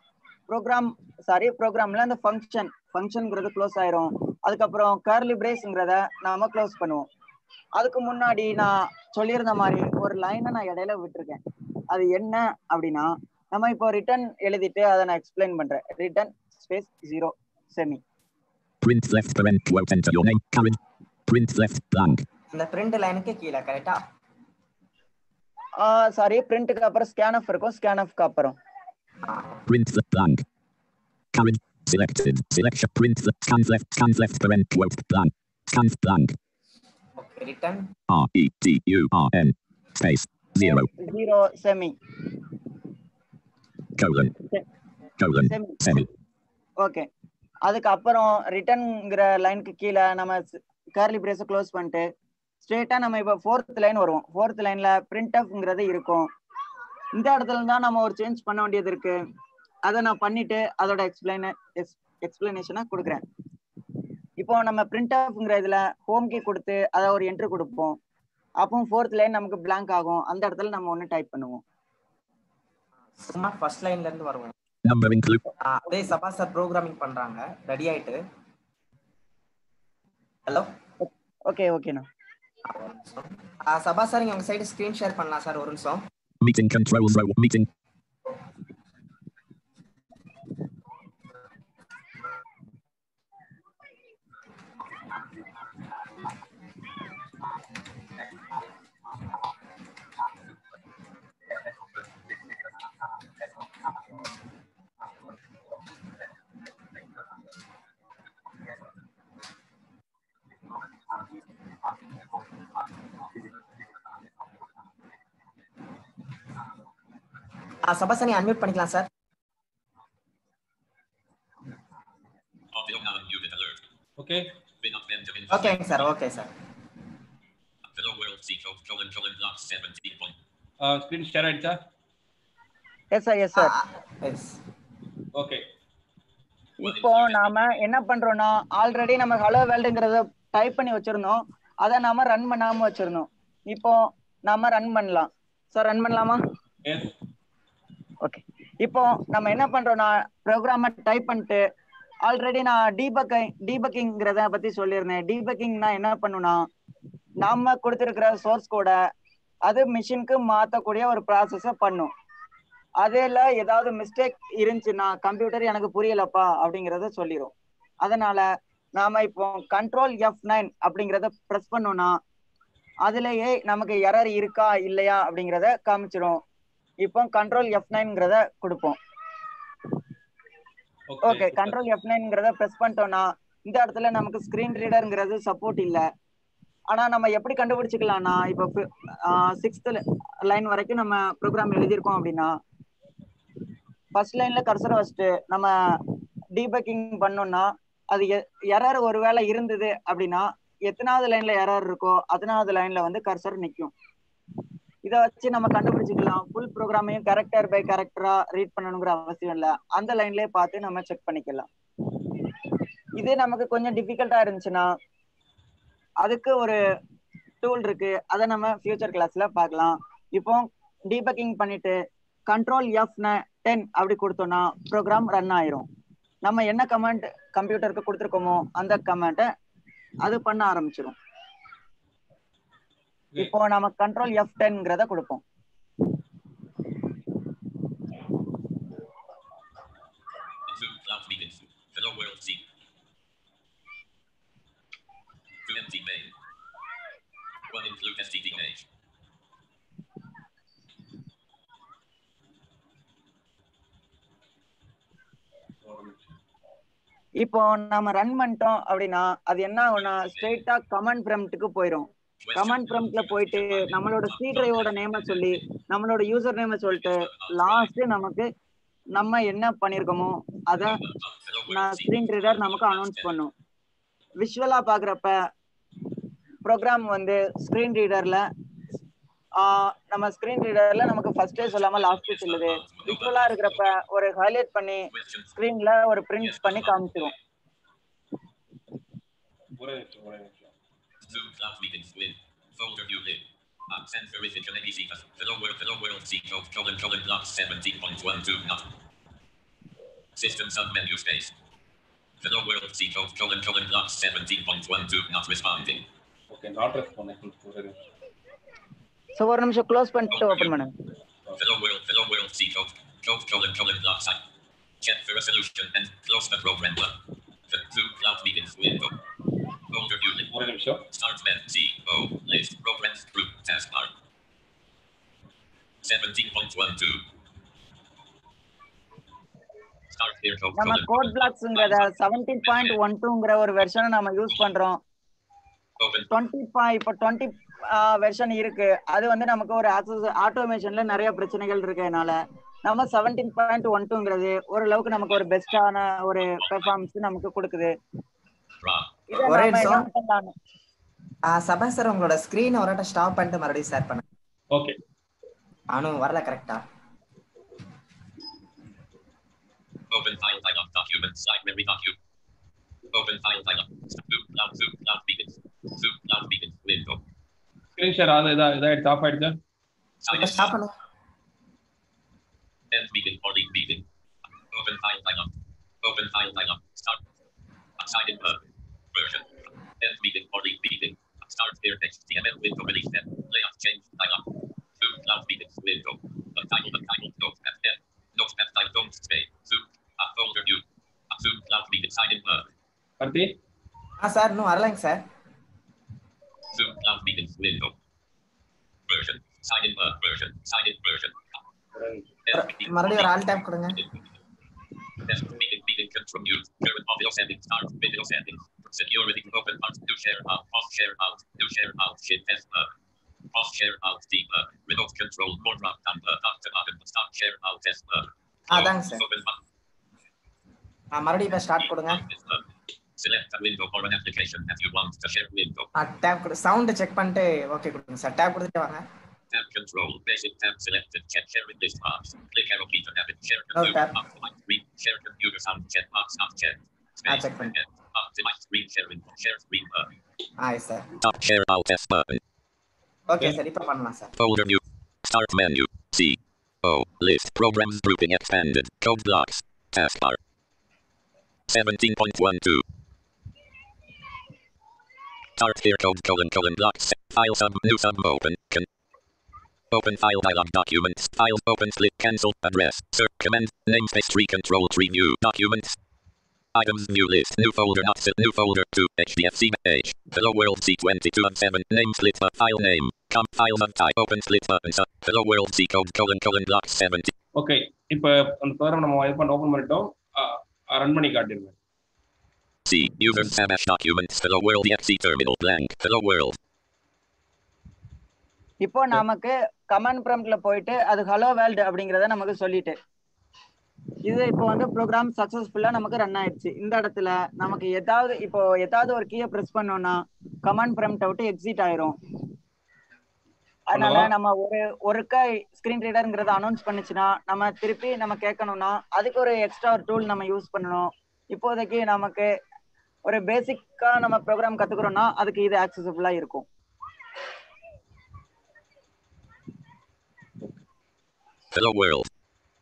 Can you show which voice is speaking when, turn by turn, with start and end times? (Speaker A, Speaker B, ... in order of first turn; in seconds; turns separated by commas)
Speaker A: 0.5-7.0, Speaker A: 7.8-18.0, Speaker B: 18.8-22.2, Speaker C: 22.5-24.0, Speaker A: 25.8-28.6, Speaker C: 29.2-29.6, Speaker B: 29.7-30.4, Speaker B: 31.3-36.4, Speaker C: 37.2-37.9, Speaker B: 38.1-40.9, Speaker A: 40.6-41.9, Speaker B: 44.0-44.3, Speaker B: 45.2-46.1, Speaker A: 45.5-45.8, Speaker A: 46.8-47.1, Speaker A: 47.6-52.0, Speaker A: 52.6-56.3, Speaker A: 57.2-59.1, Speaker A: 59.9-63.2, Speaker A: 64.4-67.9, Speaker A: 68.6-71.6, Speaker C: 73.2-74.5, Speaker B: 74.8-75.5, Speaker C: 75.6-78.2, Speaker A: 81.0-82.0, Speaker C: 82.7-86.0, Speaker B: 86.4-87.7, Speaker C: 117.8-119.1, Speaker B: 122.7-123.8, Speaker D: 124.2-124.5, Speaker B: 124.8-126.1, Speaker C: 125.5-126.5, Speaker B: 127.8-130.3, Speaker D: 130.8-131.8, Speaker A: 133.1-133.8, Speaker C: 133.5-134.6, Speaker D: 135.3-135.6, Speaker A: 136.8-146.4, Speaker B: 136.8-137.6, Speaker D: 146.8-147.1, Speaker A: 148.2-151.6, Speaker A: 152.2-156.6, Speaker A: 157.4-159.0, Speaker A: 159.7-162.1, Speaker A: 163.0-167.5, Speaker A: 168.0-172.1, Speaker A: 173.0-176.4, Speaker A: 177.0-179.0, Speaker D: 181.1-181.8, Speaker A: 181.2-186.0, Speaker A: 186.9-192.5, Speaker A: 194.1-195.7, Speaker A: 196.5-203.9, Speaker A: 205.1-211.7, Speaker A: 213.2-214.9, Speaker A: 216.2-216.8, Speaker A: 217.6-221.9, Speaker A: 222.5-225.8, Speaker A: 226.4-229.5, Speaker A: 230.2-231.1, Speaker A: 233.3-235.4, Speaker B: 240.6-242.6, Speaker B: 245.6-246.3, Speaker B: 247.7-248.9, Speaker D: 255.8-256.2, Speaker A: 257.4-268.5, Speaker B: 260.0-260.6, Speaker B: 262.4-265.7, Speaker B: 266.9-267.9, Speaker A: 269.1-271.0, Speaker B: 270.8-273.3, Speaker A: 271.7-273.5, Speaker A: 274.4-275.4, Speaker A: 276.6-278.4, Speaker A: 279.6-287.3, Speaker B: 281.6-283.9, Speaker B: 285.1-285.5, Speaker B: 286.4-287.3, Speaker D: 289.8-290.7, Speaker B: 291.2-298.9, Speaker B: 300.4-301.5, Speaker B: 302.4-306.0, Speaker D: 306.5-307.9, Speaker A: 309.4-310.9, Speaker B: 310.3-310.7, Speaker B: 311.6-314.4, Speaker B: 315.0-317.1, Speaker B: 317.7-319.1, Speaker B: 319.9-320.5, Speaker D: 320.5-321.0, Speaker B: 321.1-324.1, Speaker B: 326.0-327.2, Speaker B: 330.1-332.1, Speaker A: 330.8-335.0, Speaker B: 332.6-333.0, Speaker B: 336.0-336.3, Speaker A: 336.3-347.9, Speaker B: 346.4-346.9, Speaker B: 348.8-349.2, Speaker A: 349.3-350.5, Speaker C: 349.4-350.1, Speaker C: 351.5-354.2, Speaker D: 354.7-355.0, Speaker C: 355.9-356.8, Speaker B: 360.1-362.2, Speaker B: 363.1-367.2, Speaker D: 368.0-369.6, Speaker B: 370.2-370.7, Speaker C: 370.3-370.9, Speaker B: 372.9-374.0, Speaker B: 374.7-377.2, Speaker B: 378.0-384.4, Speaker B: 385.0-392.7, Speaker D: 393.2-393.5, Speaker C: 394.2-395.2, Speaker B: 396.7-397.9, Speaker B: 399.1-401.6, Speaker D: 401.9-402.2, Speaker B: 402.4-403.3, Speaker C: 402.5-404.0, Speaker B: 403.9-404.2, Speaker B: 405.2-412.9, Speaker B: 413.5-419.6, Speaker C: 418.7-419.2, Speaker C: 421.1-422.2, Speaker B: 422.1-422.6, Speaker B: 423.2-425.9, Speaker C: 425.9-429.0, Speaker B: 429.5-440.1, Speaker C: 433.7-434.1, Speaker C: 437.3-437.7, Speaker C: 440.6-441.1, Speaker B: 441.2-442.4, Speaker C: 443.3-444.3, Speaker B: 444.4-450.4, Speaker B: 451.7-452.8, Speaker B: 455.6-458.9, Speaker B: 459.9-466.0, Speaker B: 466.7-477.3, Speaker D: 477.6-481.7, Speaker B: 482.9-486.6, Speaker A: 488.8-493.0, Speaker A: 494.3-502.1, Speaker A: 503.9-512.5, Speaker D: 503.9-504.3, Speaker A: 513.3-516.6, Speaker B: 521.7-522.3